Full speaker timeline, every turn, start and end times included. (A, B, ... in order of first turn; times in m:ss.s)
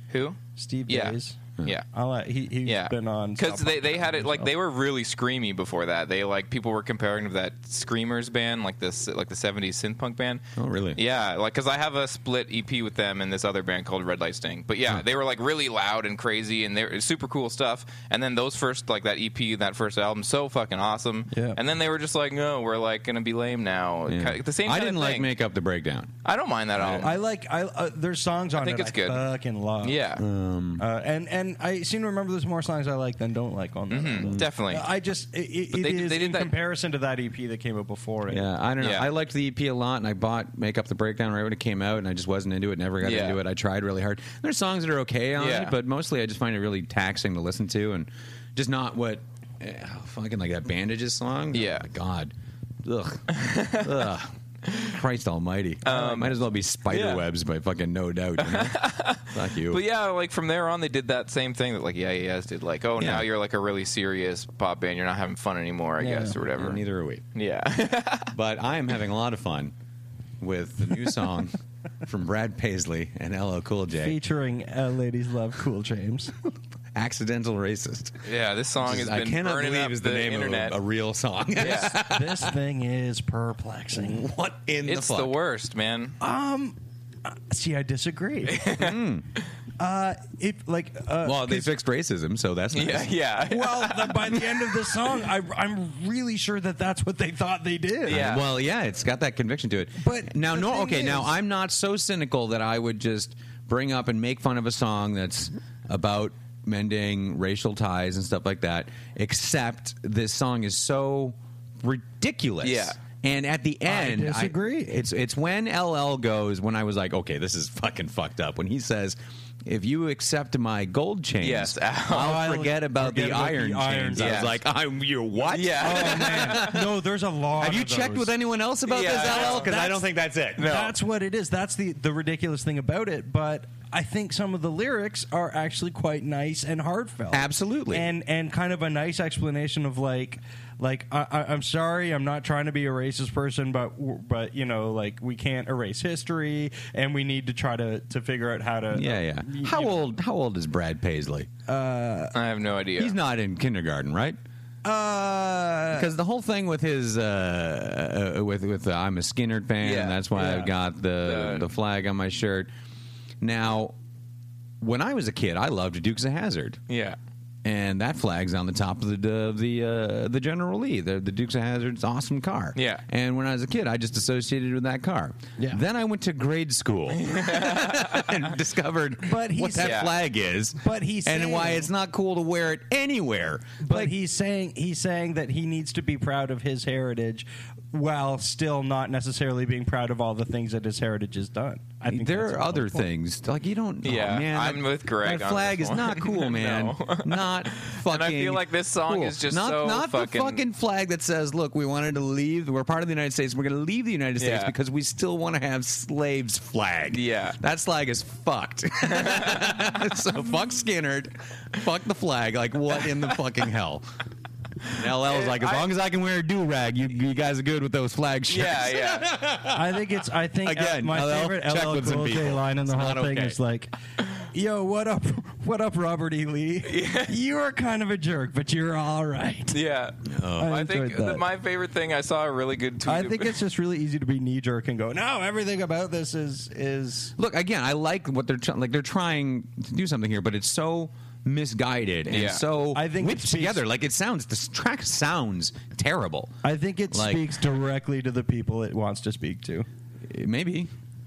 0:00.1-0:01.8 A
0:00.5-0:01.4 B
0:01.9-0:04.5 B
0:02.6-0:25.3 A
0:10.6-0:11.0 C
0:21.3-0:21.6 B
0:24.0-0:26.1 C
0:26.2-0:27.2 A
0:26.8-0:27.1 C
0:26.9-0:30.0 B
0:28.6-0:29.2 A
0:29.8-0:30.2 A
0:30.2-0:30.8 C
0:30.8-0:38.5 B
0:33.9-0:34.9 A
0:34.2-0:34.5 C
0:35.7-0:36.5 A
0:38.3-0:59.8 C
0:38.8-0:39.1 A
0:43.0-0:43.4 A
0:45.4-0:45.7 A
0:51.5-0:51.9 A
0:53.3-0:53.9 A
0:55.8-0:57.2 A
0:58.4-1:06.8 A
1:03.0-1:03.3 C
1:06.0-1:06.4 B
1:06.5-1:07.2 C
1:07.3-1:08.3 A
1:08.3-1:09.7 C
1:10.4-1:14.2 C
1:13.9-1:16.3 B
1:16.9-1:18.2 C
1:18.2-1:20.8 A
1:18.8-1:22.5 C
1:21.6-1:22.0 A
1:21.6-1:24.2 B
1:23.9-1:25.3 C
1:24.8-1:26.2 A
1:26.2-1:28.7 B
1:28.5-1:28.9 A
1:28.7-1:29.2 C
1:29.8-1:31.7 B
1:31.2-1:33.1 C
1:32.7-1:34.5 A
1:33.4-1:38.3 B
1:38.0-1:38.4 A
1:38.1-2:06.9 C
1:40.0-1:41.3 B
1:52.6-1:53.0 A
1:53.8-1:55.0 B
2:01.4-2:02.4 A
2:02.1-2:04.5 B
2:04.2-2:04.6 A
2:05.5-2:06.8 A
2:05.8-2:08.3 B
2:07.6-2:10.7 C
2:08.9-2:10.0 A
2:09.3-2:09.8 B
2:10.6-2:10.9 A
2:10.6-2:30.0 B
2:17.3-2:18.1 C
2:28.9-2:31.5 C
2:31.7-2:32.4 B
2:32.3-2:33.1 A
2:33.0-2:34.4 C
2:34.8-2:36.1 B
2:35.9-2:42.7 C
2:39.8-2:40.7 A
2:40.4-2:40.7 B
2:41.2-2:41.7 A
2:43.4-2:44.0 C
2:44.8-2:46.8 C
2:46.9-2:47.2 A
2:47.6-3:04.1 C
2:52.8-2:53.0 A
2:57.2-2:58.3 A
2:59.2-3:00.0 B
2:59.8-3:00.1 A
3:00.8-3:01.9 B
3:03.8-3:13.1 B
3:12.1-3:34.0 C
3:14.0-3:20.6 A
3:24.4-3:24.7 A
3:27.1-3:27.6 A
3:29.1-3:29.7 A
3:34.9-3:40.0 C
3:34.9-3:35.9 A
3:38.5-3:39.3 A
3:39.7-3:43.9 B
3:40.6-3:43.6 C
3:44.5-3:49.8 B
3:46.8-3:47.3 A
3:49.7-3:53.6 A
3:50.2-3:50.8 C
3:50.6-3:51.5 B
3:53.0-3:57.3 B
3:57.4-4:06.6 C
4:02.3-4:02.6 A
4:02.9-4:03.8 B
4:06.6-4:09.8 B
4:07.1-4:07.5 C
4:10.3-4:10.9 C